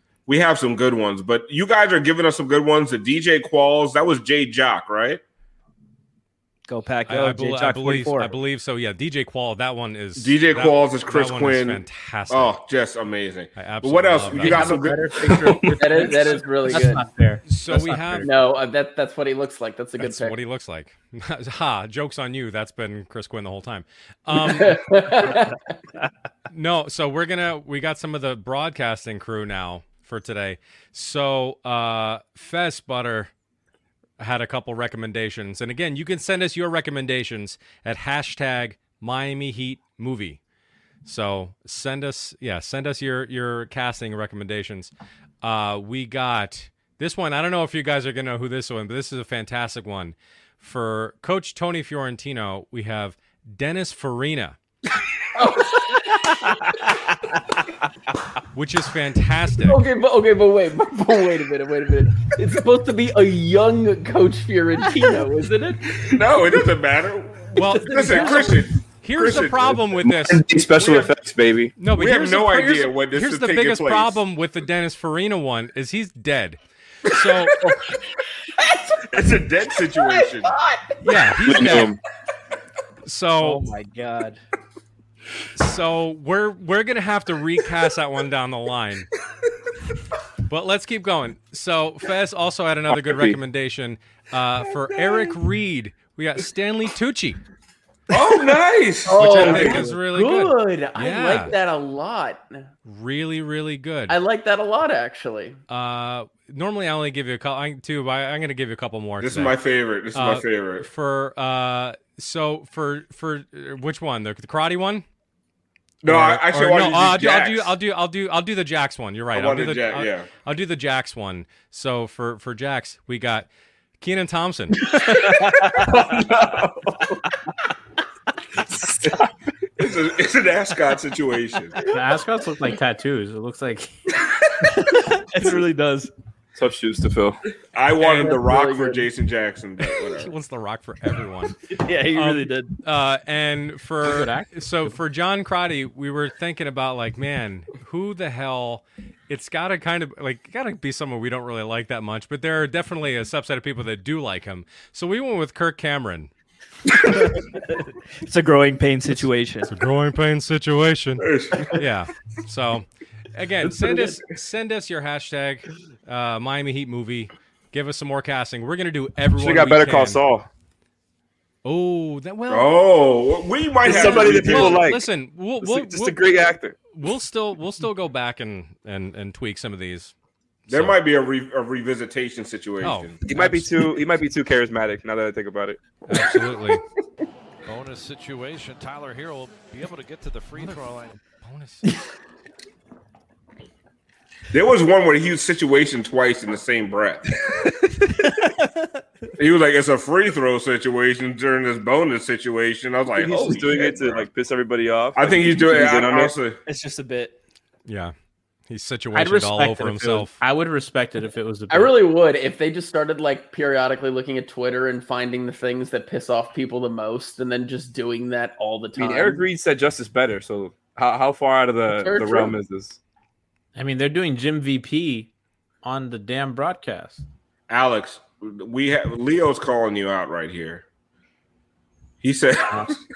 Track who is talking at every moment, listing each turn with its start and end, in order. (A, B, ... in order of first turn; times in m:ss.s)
0:00.3-0:05.2 A
0:06.7-0:08.4 B
0:07.1-0:12.5 C
0:10.2-0:15.1 A
0:13.6-0:14.8 C
0:14.3-0:18.1 D
0:15.3-0:15.7 E
0:15.8-0:17.1 F
0:17.5-0:18.3 C
0:18.2-0:20.4 F
0:20.0-0:25.4 C
0:24.3-0:25.6 F
0:26.5-0:33.3 C
0:34.2-0:40.4 C
0:41.0-0:54.6 C
0:55.3-0:56.7 F
0:58.5-0:59.8 C
0:59.6-1:06.1 F
1:05.9-1:09.8 A
1:07.5-1:10.5 C
1:07.9-1:08.4 F
1:10.0-1:11.8 E
1:10.6-1:11.1 A
1:11.8-1:17.8 C
1:11.8-1:14.2 A
1:18.6-1:21.4 F
1:19.1-1:20.5 A
1:21.0-1:21.9 C
1:21.5-1:22.0 E
1:23.0-1:23.7 C
1:23.4-1:24.4 B
1:25.5-1:29.1 C
1:30.5-1:37.4 C
1:38.1-1:39.8 A
1:39.0-1:42.7 F
1:39.2-1:41.5 C
1:42.8-1:44.2 C
1:44.1-1:45.6 F
1:45.7-1:49.5 C
1:49.2-1:50.9 A
1:50.1-1:55.1 C
1:56.0-1:57.7 A
1:56.0-2:04.9 C
1:59.3-2:00.3 A
2:05.7-2:07.2 A
2:09.8-2:11.8 A
2:11.9-2:13.9 D
2:14.8-2:16.1 B
2:16.5-2:17.4 E
2:17.7-2:20.3 A
2:18.0-2:19.1 F
2:20.2-2:36.3 C
2:21.8-2:22.7 B
2:24.0-2:24.5 D
2:38.2-2:39.7 B
2:39.2-2:50.2 C
2:41.2-2:41.8 A
2:49.4-2:50.4 E
2:51.6-2:52.8 C
2:52.5-2:54.8 A
2:53.8-2:55.0 E
2:53.8-3:00.1 C
2:55.6-2:56.8 E
3:00.7-3:00.9 C
3:00.7-3:03.2 A
3:02.8-3:03.8 C
3:03.2-3:05.8 E
3:06.0-3:06.8 C
3:07.6-3:11.2 G
3:10.6-3:10.8 C
3:11.4-3:12.0 C
3:14.5-3:17.6 A
3:18.2-3:18.7 B
3:19.4-3:24.3 A
3:23.2-3:26.3 E
3:25.2-3:26.6 A
3:26.6-3:27.3 B
3:27.8-3:28.1 C
3:28.7-3:30.4 C
3:29.1-3:31.9 D
3:31.7-3:39.4 F
3:39.0-3:43.0 E
3:41.9-3:42.5 F
3:43.7-3:45.3 D
3:45.8-3:47.2 D
3:47.7-3:50.8 A
3:52.2-3:52.9 A